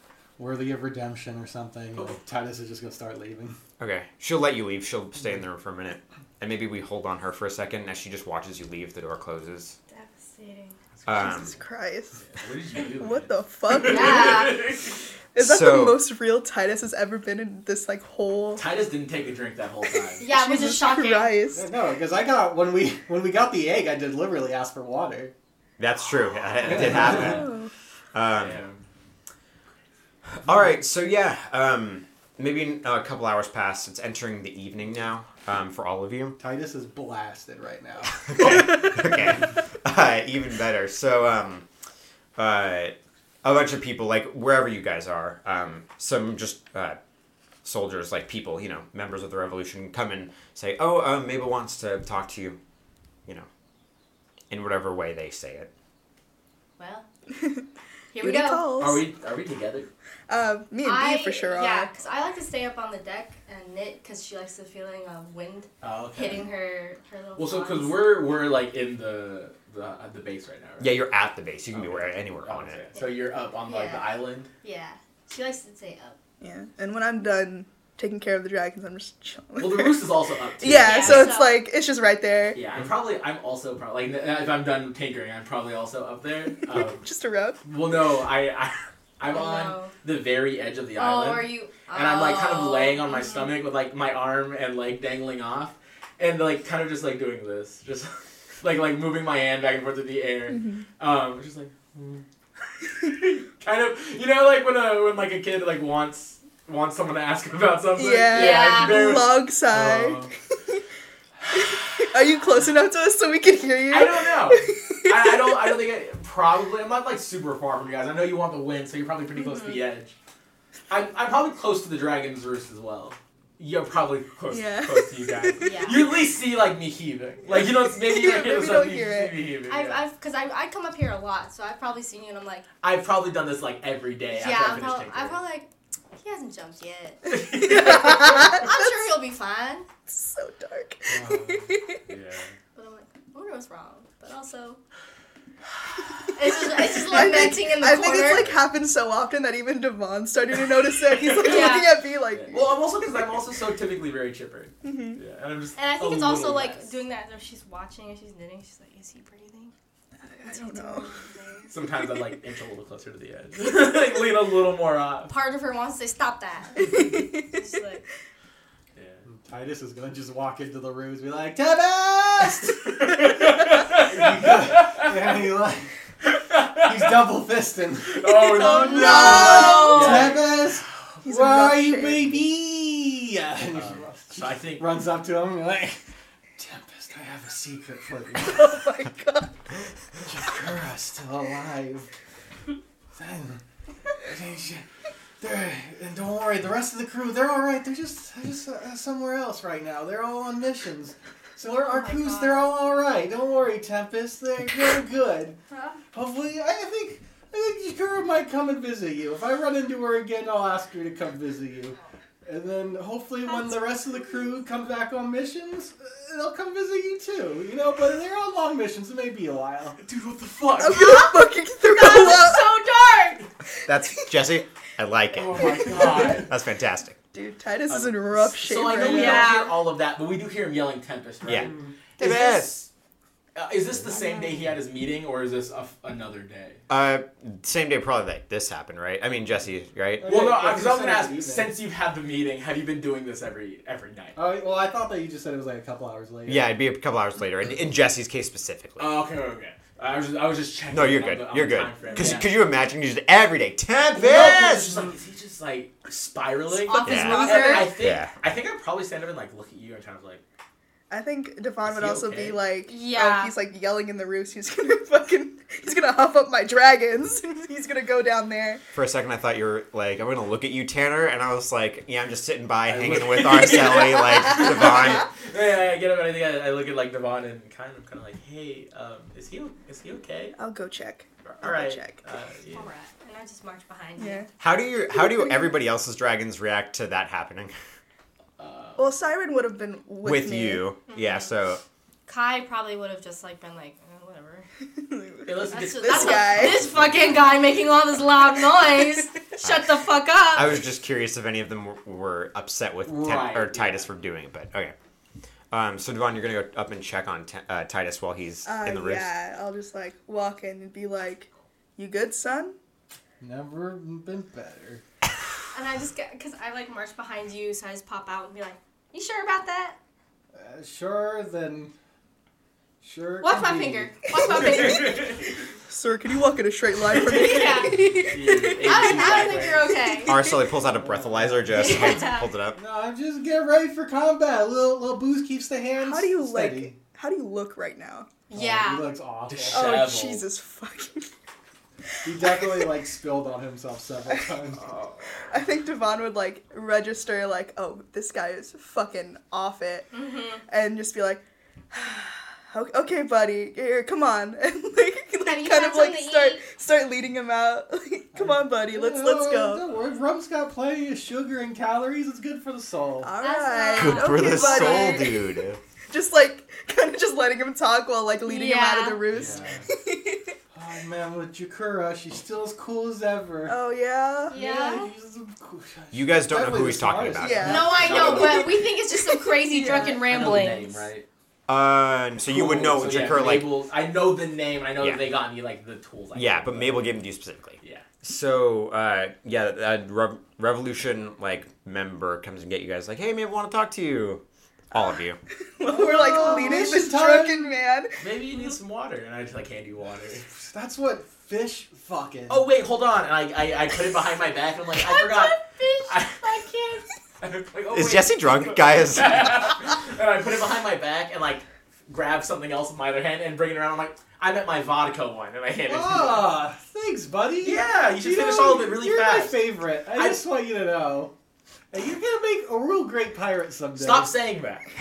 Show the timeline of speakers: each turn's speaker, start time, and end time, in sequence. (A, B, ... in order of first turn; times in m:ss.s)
0:00.4-0:03.6 A
0:03.8-0:09.8 B
0:09.9-0:10.8 C
0:11.0-0:11.4 D
0:11.0-0:11.5 B
0:11.1-0:12.2 E
0:12.2-0:15.0 D
0:12.9-0:14.6 E
0:13.8-0:14.6 C
0:15.3-0:18.6 E
0:15.4-0:16.0 B
0:18.6-0:20.3 D
0:20.2-0:21.3 C
0:20.2-0:21.6 E
0:21.5-0:25.3 A
0:25.8-0:27.5 B
0:26.7-0:27.3 D
0:26.7-0:27.4 A
0:27.2-0:27.7 E
0:28.1-0:28.6 B
0:28.3-0:28.8 D
0:30.4-0:36.4 B
0:36.4-0:38.8 A
0:38.2-0:41.7 B
0:42.4-0:47.0 B
0:47.6-0:52.6 B
0:54.5-0:55.7 B
0:56.8-0:57.0 C
0:58.1-0:58.7 C
0:58.2-0:59.0 E
0:58.8-0:59.9 D
1:00.3-1:01.9 E
1:00.8-1:08.1 C
1:05.8-1:06.5 D
1:07.4-1:11.0 D
1:10.8-1:12.8 B
1:11.7-1:14.5 D
1:13.6-1:16.2 C
1:16.4-1:20.1 E
1:19.6-1:21.4 D
1:20.6-1:22.6 E
1:20.8-1:21.7 C
1:22.5-1:27.1 D
1:26.7-1:27.6 E
1:27.6-1:42.2 D
1:29.2-1:29.9 C
1:31.0-1:33.5 C
1:40.5-1:40.8 E
1:43.0-1:50.3 D
1:48.0-1:50.8 E
1:48.3-1:49.3 C
1:51.5-1:52.0 D
1:51.5-1:55.8 E
1:53.9-2:00.1 D
1:59.4-1:59.8 C
2:00.9-2:10.0 D
2:04.5-2:05.9 E
2:05.6-2:06.0 C
2:07.5-2:09.4 E
2:09.7-2:12.6 C
2:12.8-2:15.4 D
2:14.3-2:19.8 C
2:17.2-2:18.4 D
2:17.4-2:19.0 E
2:20.1-2:22.0 E
2:21.1-2:22.5 D
2:22.7-2:24.8 C
2:26.3-2:28.5 C
2:26.5-2:32.8 E
2:28.0-2:28.6 D
2:31.3-2:31.8 D
2:31.4-2:32.0 C
2:32.3-2:36.9 D
2:34.8-2:35.2 E
2:35.8-2:39.7 C
2:40.2-2:41.1 E
2:40.4-2:41.7 C
2:41.7-2:45.3 D
2:45.3-2:48.0 C
2:46.8-2:47.6 E
2:48.9-2:49.2 D
2:49.3-2:55.9 A
2:52.8-2:55.1 D
2:56.2-2:57.2 D
2:56.7-3:06.0 A
2:58.0-3:01.2 D
2:58.4-3:00.3 E
2:59.0-3:00.3 C
3:01.2-3:02.4 E
3:03.7-3:05.0 D
3:06.6-3:08.7 A
3:08.4-3:09.6 E
3:10.2-3:12.1 A
3:13.2-3:13.6 A
3:14.1-3:14.8 A
3:15.4-3:25.6 A
3:21.9-3:22.7 C
3:26.1-3:40.0 A
3:40.0-3:41.2 D
3:40.8-3:42.8 E
3:40.9-3:43.4 C
3:43.8-3:47.2 B
3:45.3-3:46.5 D
3:45.8-3:46.4 E
3:47.3-3:49.5 E
3:47.9-3:52.8 D
3:48.9-3:49.8 C
3:51.4-3:52.9 B
3:51.6-3:51.9 A
3:52.2-3:52.7 E
3:53.5-3:56.8 D
3:54.1-3:54.6 E
3:56.9-4:00.3 B
4:00.2-4:01.7 A
4:00.2-4:04.4 D
4:04.4-4:06.7 A
4:06.5-4:09.1 B
4:09.0-4:12.6 D
4:10.9-4:14.9 B
4:14.1-4:20.4 D
4:16.8-4:18.0 E
4:17.0-4:18.3 B
4:17.1-4:17.8 C
4:21.1-4:28.8 E
4:21.8-4:22.6 D
4:22.9-4:23.5 C
4:28.9-4:35.3 B
4:32.8-4:40.6 D
4:40.6-4:42.2 E
4:41.4-4:42.9 D
4:42.7-4:44.5 C
4:44.2-4:44.5 E
4:44.6-4:47.7 B
4:45.0-4:45.7 E
4:48.6-4:49.1 D
4:49.0-4:50.8 E
4:50.2-4:51.8 B
4:51.1-4:51.5 C
4:52.3-4:54.7 C
4:55.0-4:56.9 E
4:55.4-4:57.3 D
4:55.7-5:00.8 C
5:00.5-5:04.9 B
5:03.0-5:04.1 D
5:05.7-5:09.3 B
5:08.6-5:12.8 E
5:13.4-5:15.0 A
5:15.7-5:20.0 C
5:20.5-5:21.9 A
5:23.0-5:24.3 A
5:23.4-5:25.4 C
5:24.5-5:25.3 E
5:24.8-5:25.4 D
5:25.9-5:29.7 E
5:27.2-5:30.4 C
5:27.3-5:30.0 D
5:30.2-5:32.8 B
5:30.8-5:37.0 A
5:31.7-5:32.5 C
5:36.0-5:38.3 E
5:38.5-5:39.1 C
5:38.5-5:40.0 A
5:39.5-5:40.4 D
5:39.7-5:41.3 E
5:42.2-5:44.9 A
5:42.3-5:42.8 E
5:44.7-5:45.5 D
5:45.5-5:50.1 E
5:50.1-5:50.6 C
5:50.7-5:59.8 E
5:55.4-5:56.7 C
5:58.3-6:03.3 A
6:03.2-6:05.6 E
6:03.4-6:05.4 C
6:04.0-6:05.8 B
6:06.1-6:10.5 E
6:08.4-6:09.2 C
6:09.3-6:09.8 D
6:09.4-6:09.8 A
6:10.7-6:13.8 A
6:13.6-6:14.6 E
6:14.5-6:15.1 C
6:14.5-6:18.2 A
6:16.1-6:17.8 B
6:17.4-6:20.4 E
6:17.6-6:20.9 C
6:17.9-6:18.7 D
6:19.9-6:21.2 D
6:21.7-6:23.7 B
6:22.4-6:27.1 D
6:25.0-6:25.2 B
6:26.3-6:35.4 B
6:35.8-6:38.2 E
6:35.8-6:37.7 A
6:38.2-6:40.5 D
6:40.5-6:42.7 A
6:42.5-6:46.5 D
6:44.9-6:47.0 C
6:47.4-6:56.5 D
6:47.9-6:49.7 B
6:55.8-7:01.3 A
6:57.6-7:00.4 D
7:01.9-7:04.3 A
7:04.0-7:04.9 D